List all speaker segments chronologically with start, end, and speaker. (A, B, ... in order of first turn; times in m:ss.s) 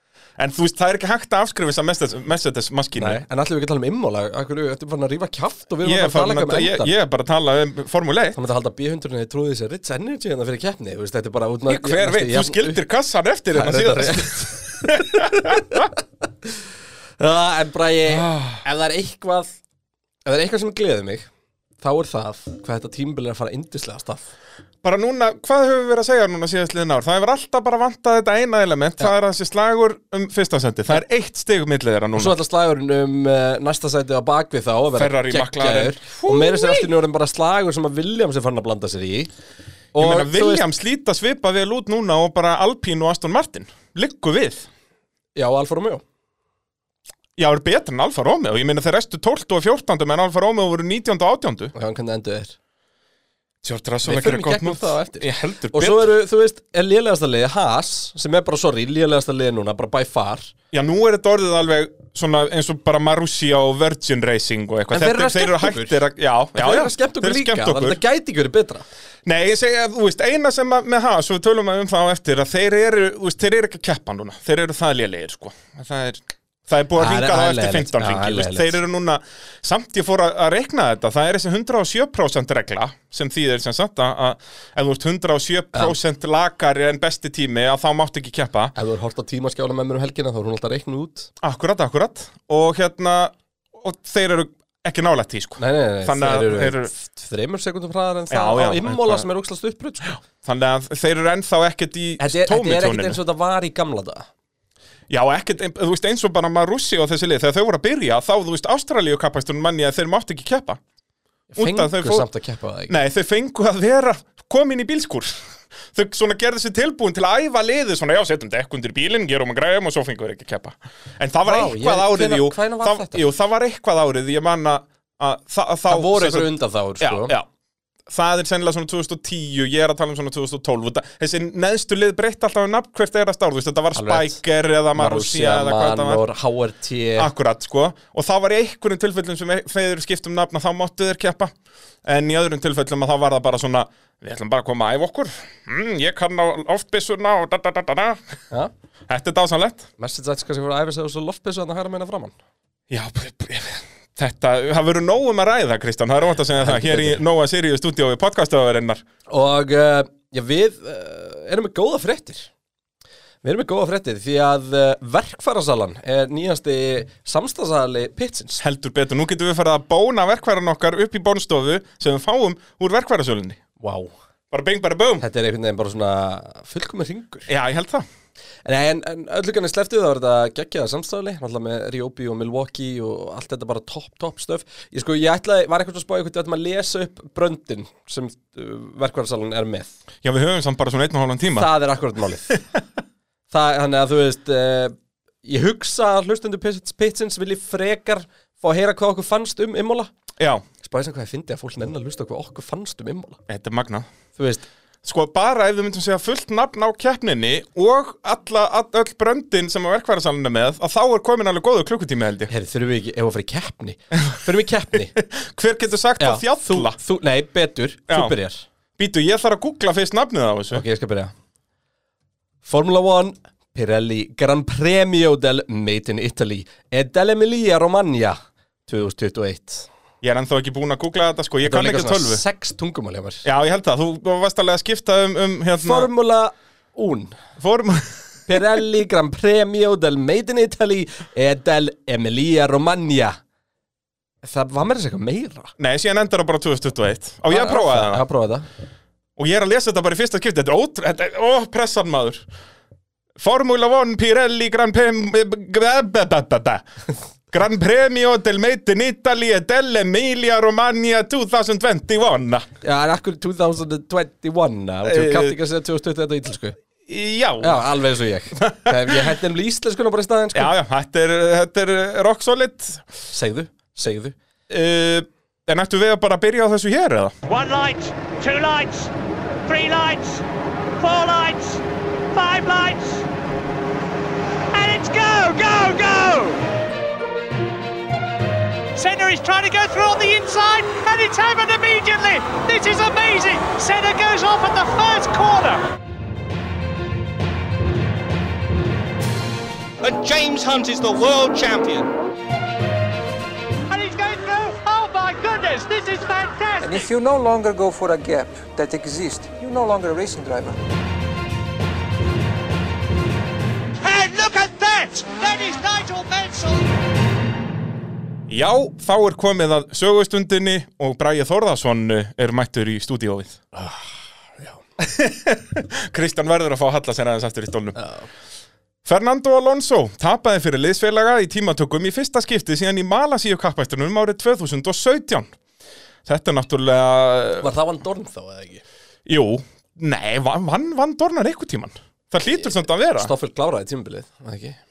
0:00.4-0:03.2 A
0:03.0-0:06.9 B
0:05.8-0:08.4 A
0:08.4-0:12.8 B
0:11.7-0:15.8 A
0:13.5-0:15.9 B
0:17.2-0:19.6 B
0:18.1-0:18.6 A
0:20.3-0:21.3 B
0:21.8-0:24.3 B
0:24.8-0:32.4 A
0:32.2-0:39.3 B
0:35.0-0:36.9 A
0:39.9-0:40.7 B
0:40.0-0:44.7 A
0:45.4-0:46.0 B
0:47.4-0:51.7 A
0:51.7-0:52.6 B
0:53.6-0:56.1 A
0:54.0-1:00.5 B
1:00.7-1:08.0 A
1:04.9-1:06.0 B
1:06.6-1:08.8 B
1:09.2-1:28.7 A
1:17.0-1:18.8 B
1:28.8-1:31.3 B
1:31.4-1:36.9 A
1:35.6-1:40.2 B
1:38.3-1:39.3 A
1:40.2-1:43.2 A
1:42.2-1:44.3 B
1:45.1-1:50.8 A
1:51.5-1:53.0 B
1:51.6-1:52.3 A
1:52.9-2:07.5 A
2:01.4-2:03.2 B
2:05.9-2:07.3 B
2:08.1-2:16.2 A
2:14.0-2:14.4 B
2:14.9-2:17.3 B
2:17.2-2:21.5 A
2:22.0-2:28.2 A
2:29.1-2:29.9 A
2:30.0-2:32.4 B
2:32.9-2:39.0 A
2:36.6-2:37.2 B
2:39.3-2:42.5 B
2:43.4-2:48.6 B
2:48.6-2:53.6 A
2:53.8-2:54.1 B
2:54.5-2:55.2 A
2:55.2-2:57.5 B
2:57.5-2:58.1 A
2:58.6-3:09.9 B
3:10.2-3:11.7 A
3:11.5-3:12.6 B
3:13.5-3:20.1 B
3:20.4-3:20.6 A
3:20.8-3:23.4 B
3:23.5-3:24.1 A
3:24.4-3:24.7 B
3:25.0-3:32.5 A
3:32.5-3:35.2 B
3:35.1-3:37.0 A
3:36.2-3:38.6 B
3:38.1-3:38.4 A
3:39.0-3:40.8 A
3:40.7-3:41.3 B
3:42.6-3:49.9 B
3:50.2-3:52.4 A
3:51.6-3:53.5 B
3:53.4-3:56.1 A
3:55.8-3:57.4 B
3:57.6-3:58.6 A
3:58.5-4:03.4 B
4:04.4-4:05.7 B
4:05.8-4:08.2 A
4:07.5-4:08.7 B
4:09.4-4:12.4 A
4:13.4-4:16.8 A
4:17.5-4:22.7 A
4:22.8-4:26.8 B
4:25.0-4:25.6 A
4:27.1-4:27.8 A
4:27.6-4:30.7 B
4:28.6-4:29.2 A
4:30.5-4:33.0 A
4:33.3-4:34.4 B
4:34.7-4:37.4 A
4:37.5-4:39.1 C
4:39.7-4:40.4 C
4:41.0-4:41.8 C
4:42.3-4:43.3 C
4:44.7-4:46.6 C
4:49.0-4:55.8 C
5:00.0-5:02.1 D
5:03.9-5:07.1 C
5:06.8-5:10.8 E
5:14.0-5:16.8 C
5:18.5-5:23.6 A
5:23.7-5:24.1 B
5:25.0-5:28.0 A
5:28.0-5:28.3 B
5:29.0-5:35.5 A
5:36.3-5:37.7 A
5:37.6-5:38.8 B
5:39.3-5:43.3 A
5:42.6-5:44.8 B